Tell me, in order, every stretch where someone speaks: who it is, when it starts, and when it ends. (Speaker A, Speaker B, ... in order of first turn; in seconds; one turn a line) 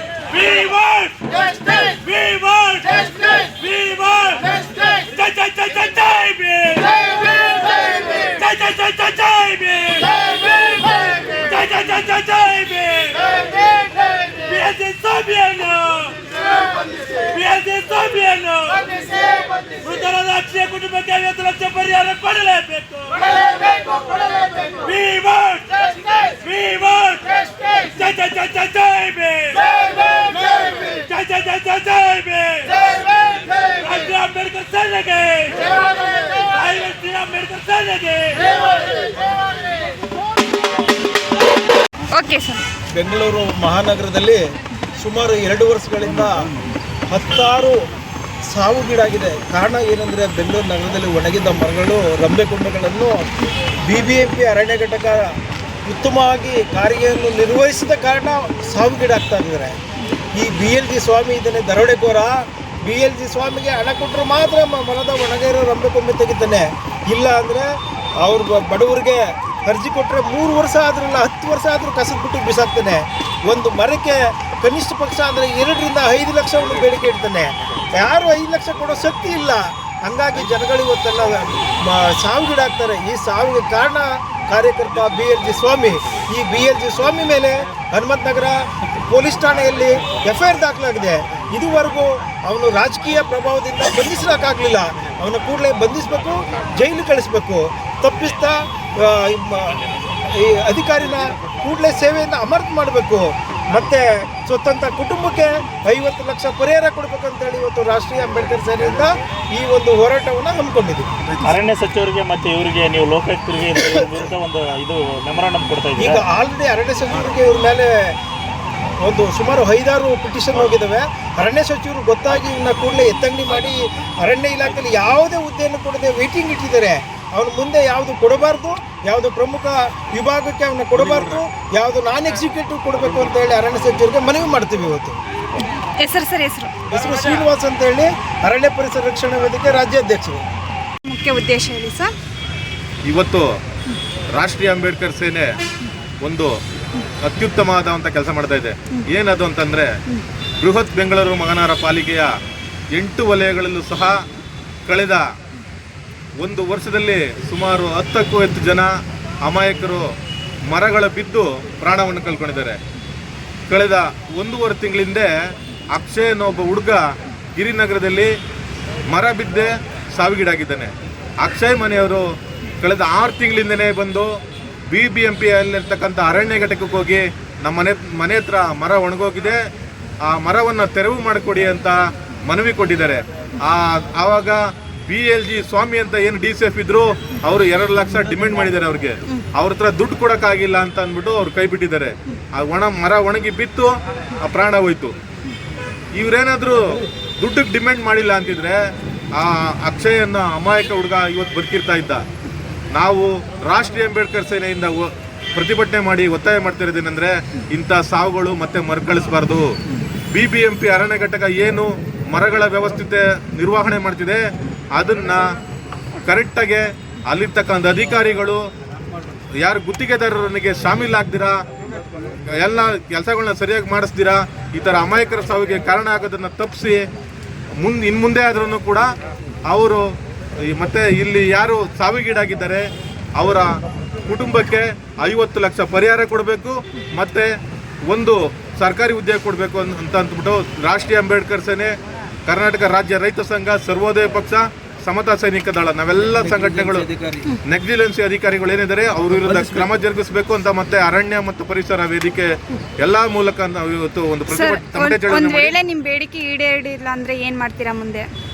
Speaker A: 0.3-39.0
Speaker B: 42.1-42.6
Speaker C: 42.9-44.4
Speaker C: 45.0-46.5
Speaker C: 47.1-47.8
Speaker C: 48.5-53.3
Speaker C: 53.8-59.8
Speaker C: 60.4-67.7
Speaker C: 68.2-88.6
Speaker C: 89.1-111.1
Speaker D: 111.4-116.2
Speaker C: 116.0-118.2
Speaker C: 119.0-135.2
Speaker B: 135.8-136.7
Speaker C: 136.9-140.4
Speaker B: 141.0-142.1
Speaker E: 143.1-143.5
Speaker E: 144.3-145.5
Speaker E: 146.2-146.6
Speaker E: 147.2-149.9
Speaker E: 150.6-152.3
Speaker E: 152.9-154.2
Speaker E: 154.9-155.2
Speaker E: 156.4-158.9
Speaker E: 159.4-160.0
Speaker E: 160.7-162.8
Speaker E: 163.7-165.3
Speaker E: 165.9-167.0
Speaker E: 167.6-168.3
Speaker E: 169.1-172.2
Speaker E: 172.8-174.3
Speaker E: 174.9-179.6
Speaker E: 180.2-193.9
Speaker E: 194.4-195.1
Speaker E: 196.1-198.8
Speaker E: 199.4-202.2
Speaker E: 202.9-209.7
Speaker E: 210.3-214.4
Speaker E: 214.9-215.4
Speaker E: 216.3-218.6
Speaker E: 219.6-221.6
Speaker E: 222.6-227.0
Speaker E: 227.8-229.1
Speaker E: 229.7-230.0
Speaker E: 230.7-232.8
Speaker E: 233.4-233.7
Speaker E: 234.3-237.5
Speaker E: 238.1-241.9
Speaker E: 242.5-247.1
Speaker E: 247.7-255.8
Speaker B: 254.5-258.3